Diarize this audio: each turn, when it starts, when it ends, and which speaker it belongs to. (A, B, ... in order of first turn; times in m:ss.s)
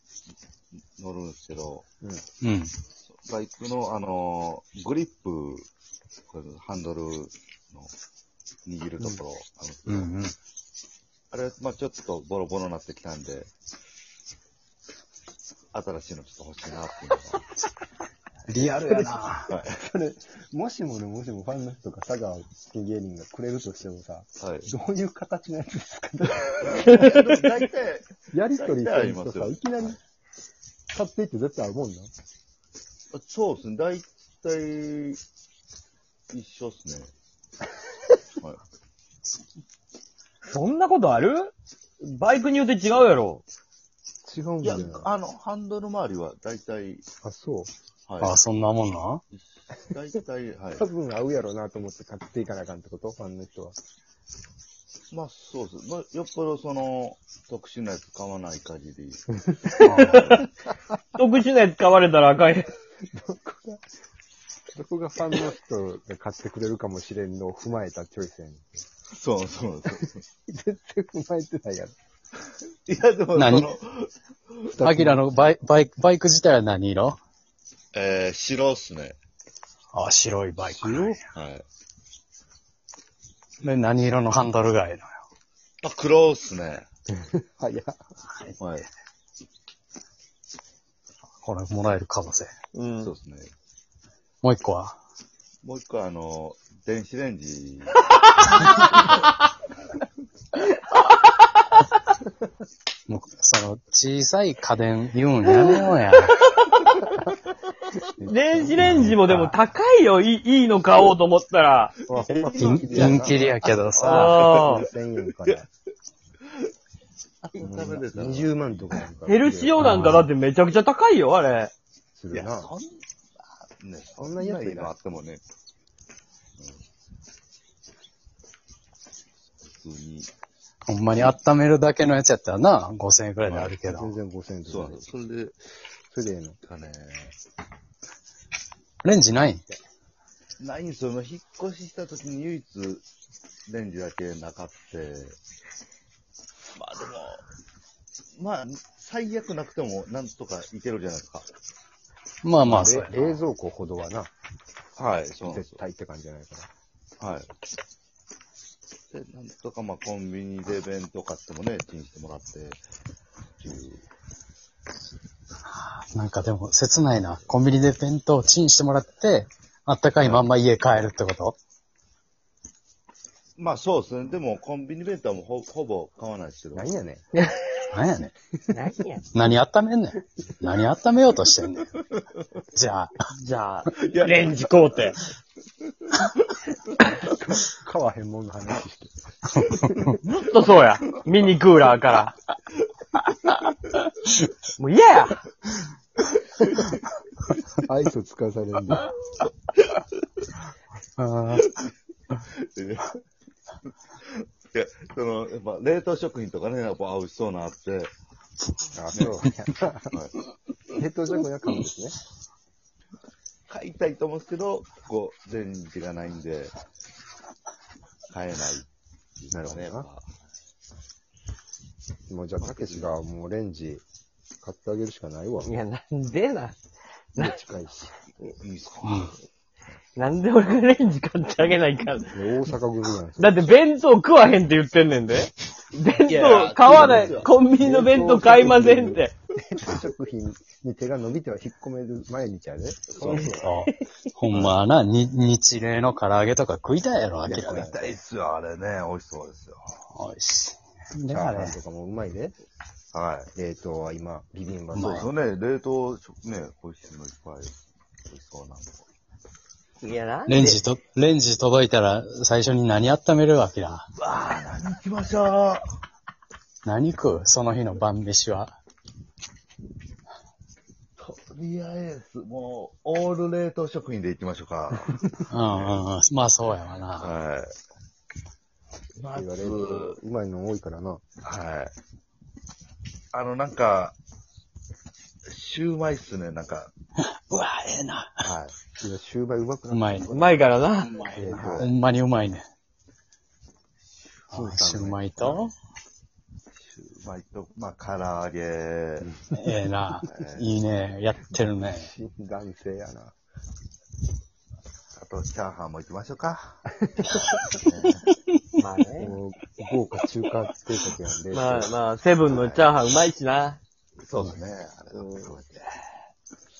0:00.7-0:01.9 A
0:02.4-0:02.7 B
0:03.0-0:05.7 A
0:06.3-0:07.9 A
0:08.6-0:10.1 A
0:09.8-0:10.3 B
0:11.3-0:13.5 A
0:15.7-0:17.4 A
0:18.5-0:19.5 B
0:18.6-0:27.1 C
0:19.5-0:19.8 A
0:24.4-0:24.7 A
0:26.7-0:29.6 A
0:26.9-0:27.4 D
0:28.3-0:30.0 C
0:30.9-0:32.1 C
0:33.1-0:35.2 A
0:36.3-0:37.1 A
0:40.5-0:43.4 D
0:44.2-0:45.1 C
0:44.6-0:47.1 A
0:47.2-0:47.7 C
0:48.1-0:48.4 A
0:48.2-0:49.2 B
0:49.3-0:50.8 A
0:50.7-0:53.8 C
0:55.1-0:59.2 A
0:59.8-1:00.5 D
0:59.8-1:00.3 B
1:01.1-1:02.7 D
1:03.1-1:03.8 C
1:04.7-1:08.8 C
1:09.1-1:10.2 A
1:09.9-1:11.9 C
1:12.8-1:14.8 A
1:13.3-1:13.7 B
1:14.7-1:15.4 C
1:14.8-1:17.2 B
1:17.9-1:19.2 A
1:19.9-1:21.3 B
1:20.8-1:21.2 C
1:21.3-1:21.6 A
1:23.6-1:25.2 B
1:25.8-1:26.9 A
1:27.1-1:28.0 C
1:28.6-1:28.9 A
1:31.4-1:32.5 B
1:32.7-1:33.1 D
1:33.0-1:33.5 A
1:34.4-1:35.0 B
1:35.6-1:37.9 A
1:43.1-1:46.4 B
1:46.4-1:46.9 D
1:48.2-1:48.9 C
1:48.2-1:51.9 D
1:48.8-1:49.5 B
1:52.0-1:53.5 C
1:52.3-1:54.5 B
1:52.4-1:54.9 A
1:54.0-1:54.8 D
1:54.6-1:55.7 C
1:57.4-1:59.0 A
1:57.6-1:59.9 C
1:59.2-2:01.7 D
1:59.8-2:00.3 B
2:02.1-2:02.7 C
2:02.3-2:05.4 A
2:04.2-2:05.0 C
2:06.6-2:06.8 A
2:09.6-2:10.3 A
2:10.9-2:14.1 B
2:13.4-2:13.8 A
2:13.8-2:15.1 C
2:14.6-2:15.6 A
2:16.1-2:16.6 C
2:16.6-2:17.4 A
2:19.0-2:19.6 B
2:20.6-2:23.0 A
2:23.6-2:25.4 A
2:26.7-2:27.4 A
2:28.3-2:31.5 A
2:32.4-2:33.4 B
2:32.6-2:34.3 C
2:35.0-2:35.8 A
2:35.4-2:36.7 C
2:37.2-2:37.5 A
2:39.1-2:42.8 A
2:43.6-2:44.0 A
2:45.7-2:51.5 B
2:50.2-2:50.5 A
2:53.6-2:56.9 A
2:56.7-2:57.2 C
2:57.4-2:57.7 D
2:57.9-2:58.3 B
2:58.7-2:59.2 D
2:59.3-3:02.0 B
3:02.7-3:03.2 B
3:03.3-3:05.2 D
3:03.9-3:05.0 A
3:07.0-3:09.1 C
3:09.7-3:10.1 C
3:10.2-3:12.4 D
3:14.8-3:15.4 D
3:16.6-3:16.9 C
3:17.8-3:19.1 C
3:21.2-3:21.8 B
3:22.5-3:23.2 A
3:24.2-3:28.2 A
3:28.9-3:30.2 C
3:30.9-3:32.2 C
3:33.7-3:36.7 A
3:38.3-3:38.9 A
3:39.4-3:40.4 A
3:39.5-3:40.1 C
3:42.3-3:44.0 C
3:42.6-3:43.2 A
3:44.6-3:45.7 C
3:45.6-3:46.8 D
3:47.3-3:48.1 C
3:48.4-3:49.3 A
3:49.0-3:49.3 B
3:50.2-3:52.4 D
3:52.3-3:53.8 C
3:53.4-3:59.3 D
3:56.2-3:57.5 A
3:57.0-4:03.7 C
4:03.1-4:03.4 A
4:03.2-4:04.0 D
4:03.5-4:07.9 B
4:04.5-4:04.8 A
4:07.4-4:10.0 A
4:07.7-4:08.1 C
4:10.1-4:11.8 B
4:11.3-4:12.6 C
4:13.1-4:13.5 A
4:13.5-4:15.3 C
4:14.9-4:15.3 B
4:15.0-4:19.1 A
4:20.0-4:20.8 D
4:20.5-4:24.1 B
4:24.2-4:25.9 A
4:26.8-4:28.7 B
4:31.2-4:35.2 A
4:35.5-4:37.4 B
4:37.2-4:37.8 A
4:39.2-4:40.2 A
4:39.3-4:41.2 C
4:41.4-4:42.0 A
4:43.3-4:44.2 A
4:45.4-4:46.9 A
4:47.2-4:48.5 B
4:48.4-4:48.9 A
4:48.9-4:50.7 C
4:49.9-4:50.3 B
4:50.3-4:51.3 D
4:51.0-4:51.9 A
4:51.2-4:52.6 B
4:51.3-4:51.8 C
4:54.2-4:55.7 A
4:54.5-4:55.7 B
4:56.7-4:59.3 A
4:59.2-4:59.5 C
4:59.5-5:02.1 B
5:00.3-5:00.6 A
5:01.5-5:03.4 C
5:05.1-5:06.8 A
5:06.9-5:07.8 C
5:07.8-5:08.2 A
5:08.8-5:09.3 D
5:09.2-5:12.0 C
5:11.5-5:13.8 D
5:12.5-5:12.9 A
5:14.2-5:16.3 A
5:15.1-5:15.5 D